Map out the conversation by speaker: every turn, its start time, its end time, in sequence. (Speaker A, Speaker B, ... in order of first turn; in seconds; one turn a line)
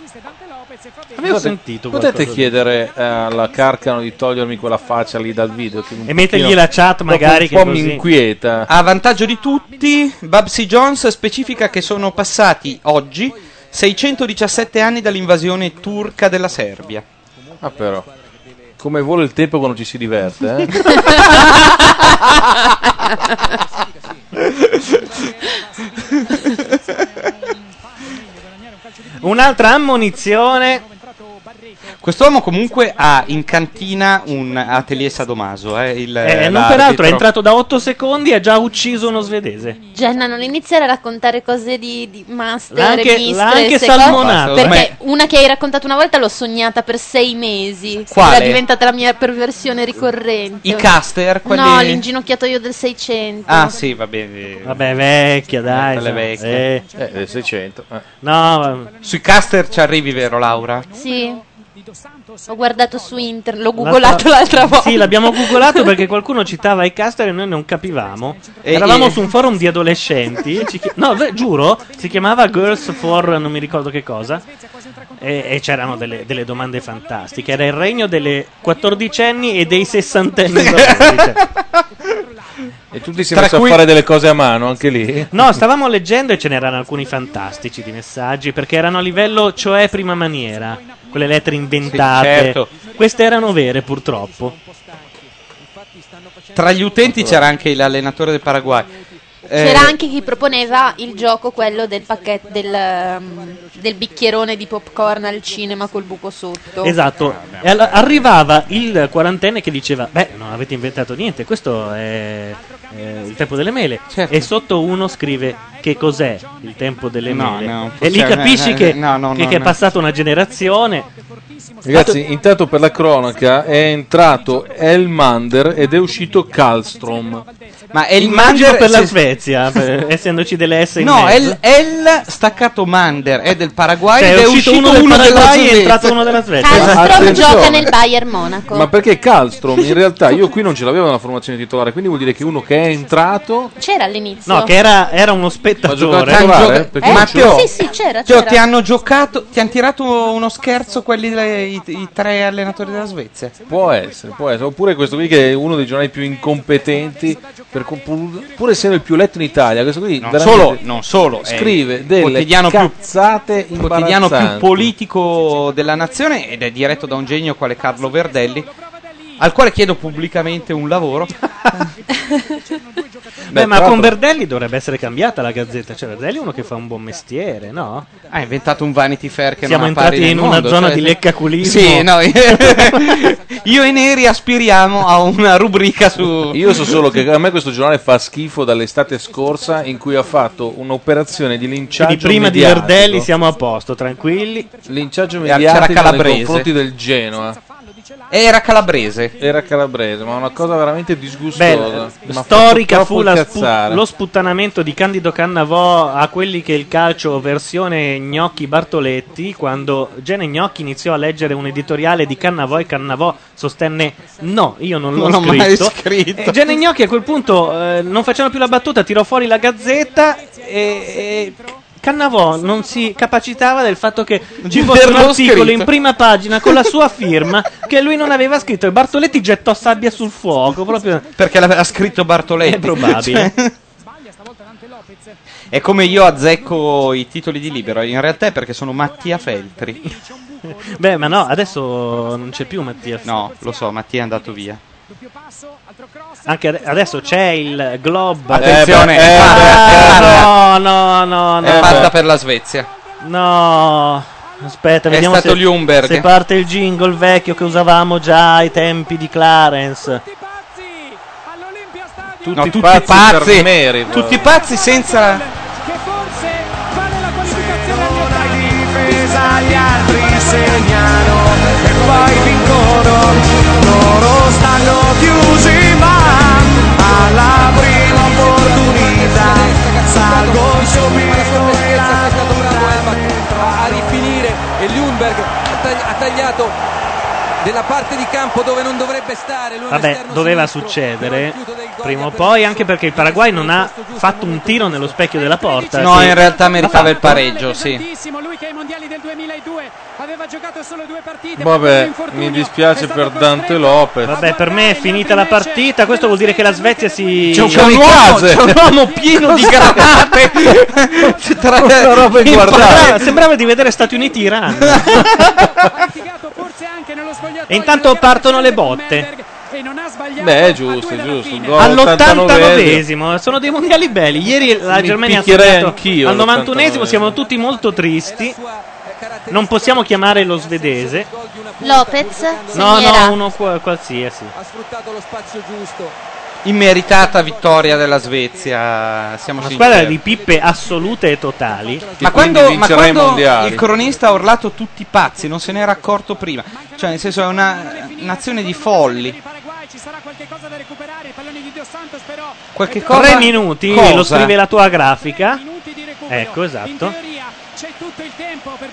Speaker A: 1.1-2.5
Speaker B: 1.2-8.7
Speaker A: 6.1-8.0
Speaker C: 8.7-17.0
Speaker B: 17.6-18.1
Speaker B: 18.8-21.3
Speaker C: 24.4-24.8
Speaker C: 26.3-26.7
Speaker A: 29.2-30.8
Speaker C: 32.0-37.2
Speaker A: 36.2-39.8
Speaker D: 39.9-53.8
Speaker A: 42.7-44.8
Speaker C: 44.0-44.9
Speaker C: 48.1-48.6
Speaker C: 50.6-52.0
Speaker C: 53.5-54.8
Speaker A: 54.6-56.8
Speaker C: 55.7-56.6
Speaker B: 56.9-58.0
Speaker A: 58.2-58.9
Speaker C: 59.0-60.9
Speaker D: 60.9-61.4
Speaker D: 62.5-65.8
Speaker A: 63.8-74.4
Speaker C: 68.6-69.2
Speaker A: 75.2-81.4
Speaker C: 80.6-81.3
Speaker B: 82.9-85.6
Speaker C: 83.3-83.8
Speaker A: 85.3-94.5
Speaker C: 91.9-92.7
Speaker C: 96.5-98.9
Speaker B: 97.1-97.4
Speaker C: 99.5-100.0
Speaker D: 99.5-106.9
Speaker A: 106.8-121.1
Speaker C: 107.2-108.3
Speaker C: 114.1-114.5
Speaker C: 117.3-119.7
Speaker B: 121.8-127.5
Speaker A: 121.9-122.2
Speaker C: 127.9-129.2
Speaker A: 128.2-131.6
Speaker C: 131.0-137.7
Speaker A: 134.2-137.4
Speaker D: 136.6-138.9
Speaker B: 136.7-137.9
Speaker B: 138.7-143.7
Speaker D: 143.8-144.7
Speaker A: 144.4-146.7
Speaker B: 145.8-147.6
Speaker C: 146.3-147.7
Speaker D: 147.0-148.6
Speaker C: 148.2-153.5
Speaker B: 153.7-160.8
Speaker C: 160.2-162.9
Speaker B: 161.4-164.9
Speaker C: 163.8-168.7
Speaker C: 169.4-171.3
Speaker A: 173.5-178.1
Speaker B: 173.5-174.1
Speaker C: 178.3-187.0
Speaker A: 179.6-183.1
Speaker B: 186.5-193.3
Speaker A: 192.0-194.7
Speaker B: 194.8-197.6
Speaker C: 195.4-196.7
Speaker C: 198.3-199.3
Speaker B: 199.4-204.0
Speaker A: 201.5-231.2
Speaker C: 215.2-216.6
Speaker C: 224.6-225.9
Speaker C: 231.4-233.7
Speaker A: 232.6-233.5
Speaker C: 235.7-240.0
Speaker A: 240.6-243.3
Speaker C: 243.2-244.8
Speaker A: 246.4-252.1
Speaker C: 248.5-250.5
Speaker B: 248.5-250.5
Speaker C: 251.6-252.9
Speaker B: 251.6-252.1
Speaker A: 253.2-260.2
Speaker C: 255.1-256.3
Speaker B: 262.4-264.5
Speaker C: 262.5-265.5
Speaker E: 267.4-284.3
Speaker F: 278.4-286.8
Speaker F: 287.6-290.8
Speaker A: 289.9-297.4
Speaker F: 291.4-292.0
Speaker C: 295.9-298.1
Speaker B: 301.6-304.4
Speaker A: 304.2-307.9
Speaker B: 307.5-310.4
Speaker C: 307.5-313.4
Speaker B: 311.2-313.3
Speaker A: 312.6-315.4
Speaker C: 314.9-315.7
Speaker A: 317.7-319.3
Speaker B: 320.4-323.0
Speaker A: 321.8-328.6
Speaker B: 324.9-327.4
Speaker A: 329.5-331.3
Speaker D: 331.8-333.4
Speaker A: 332.7-334.5
Speaker F: 334.7-336.0
Speaker C: 336.6-340.2
Speaker A: 339.6-342.5
Speaker B: 342.2-343.9
Speaker C: 342.2-349.4
Speaker C: 352.7-354.5
Speaker A: 353.1-355.6
Speaker A: 356.3-357.1